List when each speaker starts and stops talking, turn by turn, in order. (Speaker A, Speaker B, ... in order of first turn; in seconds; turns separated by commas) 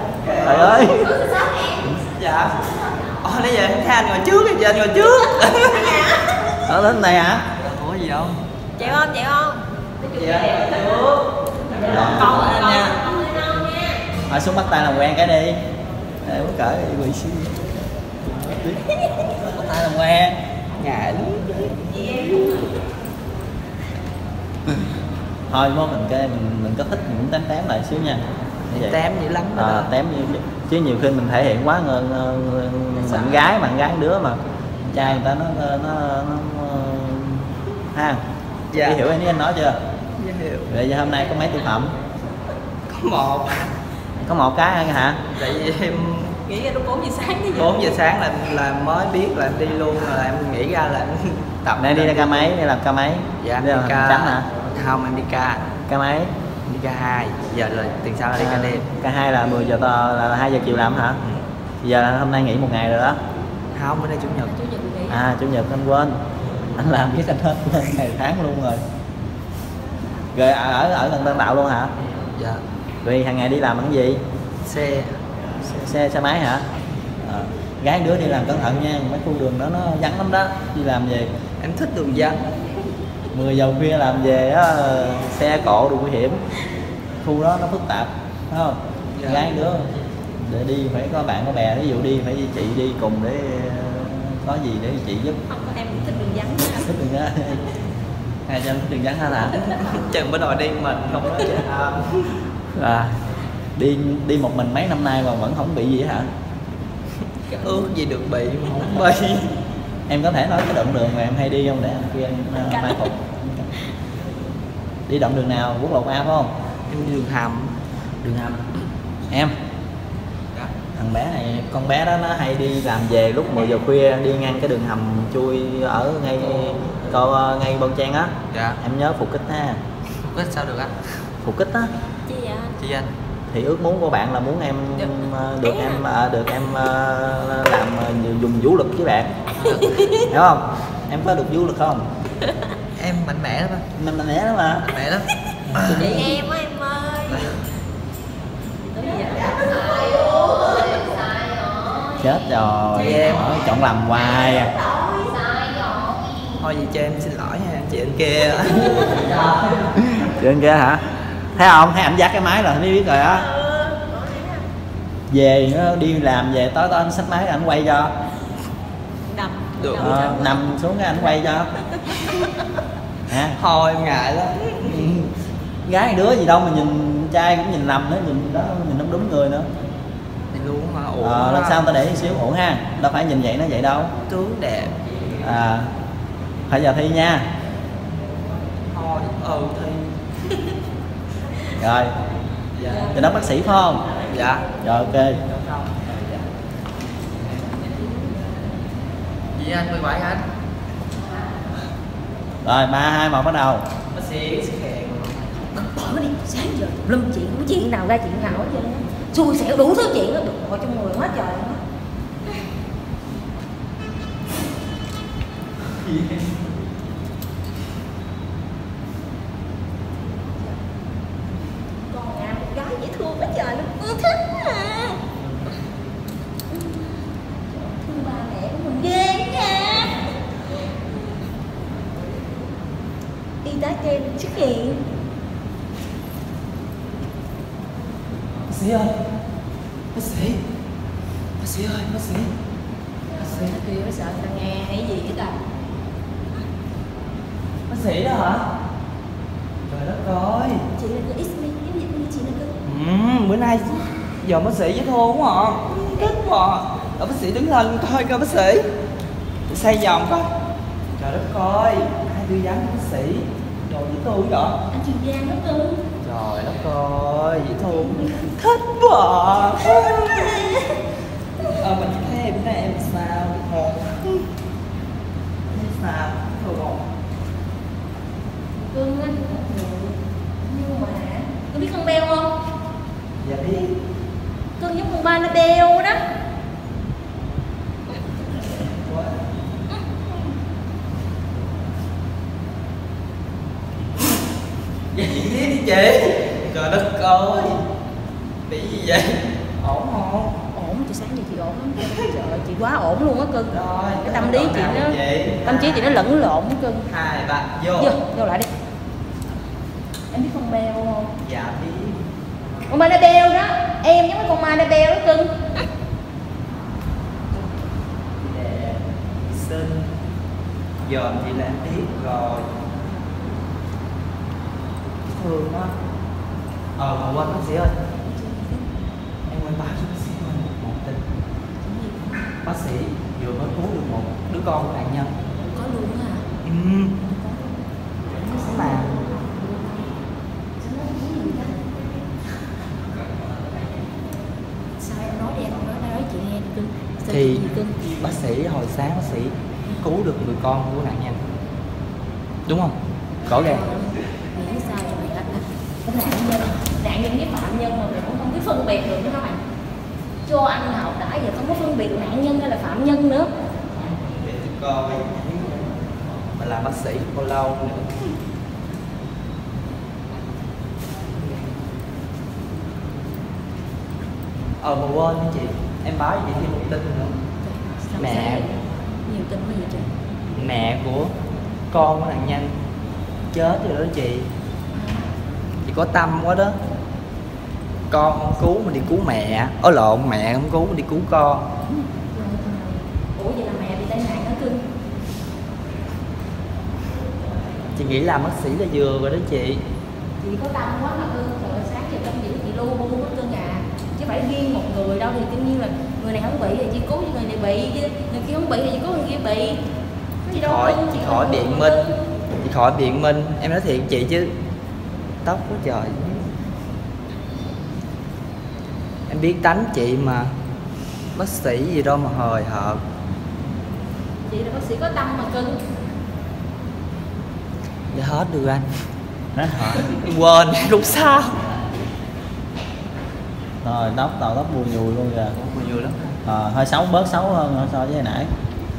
Speaker A: 0.2-1.1, Speaker B: 0.4-1.2, Speaker C: 1.1-1.8, Speaker A: 1.8-6.3, Speaker C: 5.5-6.4, Speaker B: 6.6-7.4, Speaker A: 7.5-8.9, Speaker C: 8.8-11.0, Speaker A: 10.1-13.0, Speaker C: 11.7-14.0, Speaker B: 11.8-12.6, Speaker B: 14.3-15.6, Speaker B: 16.2-17.6, Speaker B: 18.2-20.4, Speaker A: 20.8-22.7, Speaker B: 25.5-29.0, Speaker A: 28.7-29.9, Speaker B: 29.5-38.2, Speaker A: 33.0-33.4, Speaker A: 38.7-39.0, Speaker B: 38.7-39.8, Speaker A: 40.2-40.7, Speaker B: 40.7-41.9, Speaker A: 42.9-43.7, Speaker B: 44.2-45.2, Speaker A: 45.3-46.4, Speaker C: 46.4-47.7, Speaker A: 47.5-52.5, Speaker B: 51.8-54.5, Speaker A: 53.4-55.7, Speaker B: 55.9-56.3, Speaker A: 56.6-58.9, Speaker B: 58.4-61.2, Speaker B: 61.8-63.2, Speaker A: 63.7-64.5, Speaker C: 64.5-65.2, Speaker B: 65.1-66.2, Speaker B: 66.8-68.8, Speaker B: 70.3-71.9, Speaker A: 72.3-72.6, Speaker B: 73.0-74.2, Speaker A: 74.6-75.2, Speaker B: 75.6-76.6, Speaker B: 77.2-81.3, Speaker A: 81.6-82.4, Speaker B: 83.3-86.4, Speaker B: 87.2-89.8, Speaker A: 89.1-89.5, Speaker B: 90.4-95.4, Speaker C: 95.5-96.9, Speaker B: 96.6-97.6, Speaker B: 98.5-99.7, Speaker A: 99.5-102.3, Speaker B: 102.7-103.2, Speaker B: 103.8-106.3, Speaker A: 107.5-109.5, Speaker C: 107.5-107.8, Speaker B: 110.1-113.7, Speaker C: 112.7-113.0, Speaker B: 115.1-116.5, Speaker A: 116.9-117.7, Speaker B: 118.2-118.7, Speaker B: 120.9-129.8, Speaker A: 128.5-128.8, Speaker A: 130.2-131.1, Speaker B: 131.4-131.9, Speaker C: 132.3-132.7, Speaker A: 132.8-133.1, Speaker B: 133.5-139.5, Speaker C: 135.6-136.0, Speaker A: 139.6-140.0, Speaker C: 139.7-140.2, Speaker B: 140.1-142.0, Speaker A: 142.9-143.8, Speaker B: 143.9-144.9, Speaker A: 144.9-146.0, Speaker B: 145.7-146.4, Speaker C: 145.8-147.4, Speaker C: 148.9-152.2, Speaker B: 152.2-154.8, Speaker A: 152.9-153.5, Speaker C: 154.9-156.2, Speaker A: 156.6-159.5, Speaker B: 160.1-161.0, Speaker B: 161.5-163.5, Speaker C: 163.5-164.6, Speaker B: 165.3-168.1, Speaker C: 169.2-172.6, Speaker A: 169.8-170.2, Speaker B: 170.0-171.7, Speaker B: 173.3-173.6, Speaker A: 173.5-175.1, Speaker B: 174.8-175.3, Speaker B: 175.8-179.7, Speaker A: 180.5-181.8, Speaker B: 181.2-184.1, Speaker A: 184.2-185.0, Speaker B: 185.4-185.9, Speaker B: 186.7-187.5, Speaker A: 188.9-190.1, Speaker B: 191.7-192.1, Speaker A: 192.7-193.2, Speaker B: 193.0-194.1, Speaker A: 194.3-194.7, Speaker B: 194.8-195.4, Speaker A: 195.4-196.4, Speaker C: 197.9-198.2, Speaker A: 199.5-200.4, Speaker B: 202.6-203.8, Speaker A: 204.1-205.9, Speaker C: 205.9-211.8, Speaker C: 220.3-220.8, Speaker C: 222.1-225.2, Speaker C: 226.7-230.3, Speaker C: 233.6-235.1, Speaker A: 238.7-239.2, Speaker A: 240.1-240.6, Speaker A: 241.6-242.5, Speaker C: 243.3-245.6, Speaker A: 243.3-243.8, Speaker A: 247.9-248.7, Speaker A: 249.8-250.9, Speaker C: 250.9-252.7, Speaker A: 252.8-258.9, Speaker A: 259.7-260.5, Speaker A: 261.2-264.8, Speaker C: 264.9-266.0, Speaker A: 266.2-270.8, Speaker A: 271.6-274.5, Speaker A: 275.7-277.0, Speaker C: 278.8-282.5, Speaker A: 283.4-284.0, Speaker C: 284.8-286.2, Speaker A: 288.9-289.4, Speaker A: 295.1-297.8, Speaker A: 298.7-300.6, Speaker C: 300.7-307.1, Speaker A: 303.7-306.2, Speaker A: 307.1-308.2, Speaker C: 308.0-308.7, Speaker C: 310.3-311.3, Speaker A: 311.4-312.2, Speaker C: 312.9-315.6, Speaker A: 318.4-320.1, Speaker A: 321.0-322.7, Speaker A: 325.2-325.9, Speaker A: 327.0-328.0, Speaker C: 328.2-328.9, Speaker A: 329.5-331.2, Speaker C: 331.8-332.6, Speaker A: 332.6-335.3, Speaker C: 335.7-336.5, Speaker A: 336.6-337.2, Speaker C: 337.2-337.7, Speaker C: 338.4-340.1, Speaker A: 338.5-339.2, Speaker C: 340.8-341.9, Speaker C: 345.0-348.2, Speaker A: 347.3-351.4, Speaker A: 352.6-353.9, Speaker C: 353.5-359.6, Speaker C: 360.4-363.5, Speaker A: 364.3-365.8, Speaker A: 366.6-368.2, Speaker A: 374.8-377.4, Speaker C: 377.6-380.1, Speaker A: 378.1-378.7, Speaker A: 380.5-381.3, Speaker A: 381.9-382.7, Speaker A: 383.5-384.5, Speaker C: 384.9-385.3, Speaker A: 385.8-386.8, Speaker A: 388.1-391.7, Speaker C: 391.9-394.9, Speaker A: 397.9-399.8, Speaker C: 400.4-409.8, Speaker C: 410.4-412.2, Speaker A: 410.5-412.1, Speaker A: 412.6-414.5, Speaker A: 415.4-416.4, Speaker A: 419.3-420.5, Speaker A: 421.3-423.0, Speaker C: 424.5-425.8, Speaker A: 428.1-428.9, Speaker B: 429.6-430.1, Speaker A: 429.9-431.6, Speaker B: 433.8-435.6, Speaker A: 435.5-436.3, Speaker B: 436.4-438.5